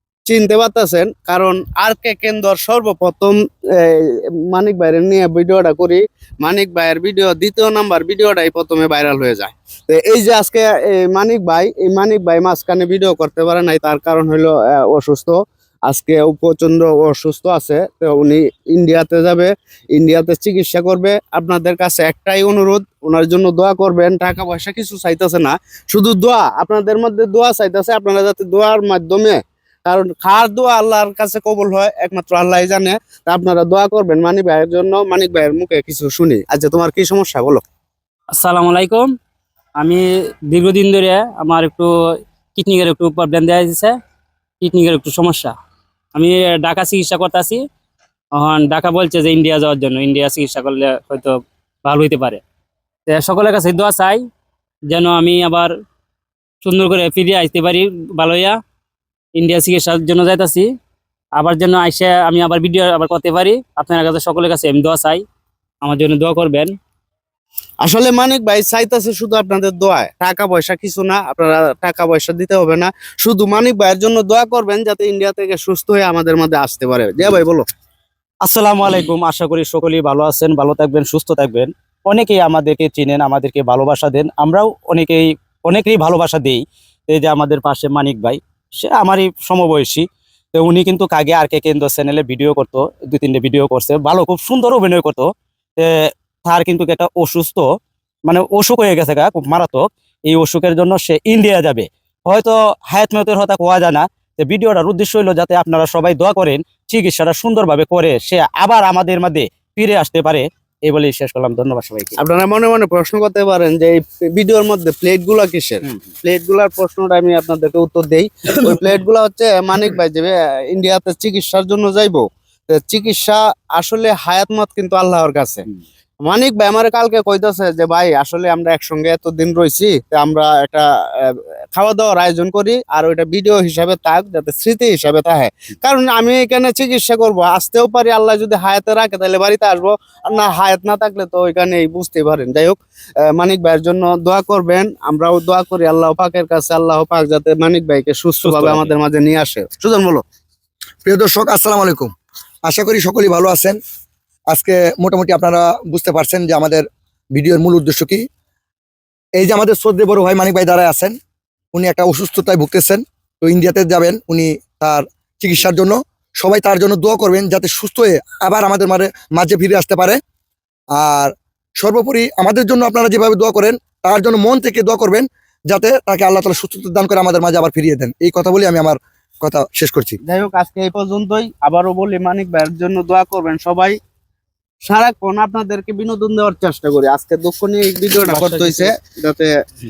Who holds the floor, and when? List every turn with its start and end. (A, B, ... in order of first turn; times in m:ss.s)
0:00.2-0:37.6 A
0:38.4-0:39.1 B
0:39.8-0:41.9 B
0:42.6-0:43.9 B
0:44.6-0:45.5 B
0:46.1-0:47.6 B
0:48.4-0:52.4 B
0:53.1-0:54.2 B
0:54.9-0:55.7 B
0:56.6-0:58.6 B
0:59.4-1:00.7 B
1:01.4-1:05.2 B
1:05.8-1:06.7 B
1:07.8-1:17.6 A
1:18.4-1:35.2 C
1:35.8-1:37.6 C
1:38.3-1:52.2 C
1:52.2-2:05.6 A
2:06.2-2:22.8 A
2:23.3-2:30.2 A
2:28.4-2:28.9 C
2:31.0-2:32.1 D
2:32.6-2:33.8 D
2:34.5-2:38.2 D
2:39.4-2:41.1 D
2:41.7-2:50.2 D
2:51.0-3:00.2 D
3:00.2-3:04.0 A
3:04.8-3:09.5 A
3:08.3-3:08.7 C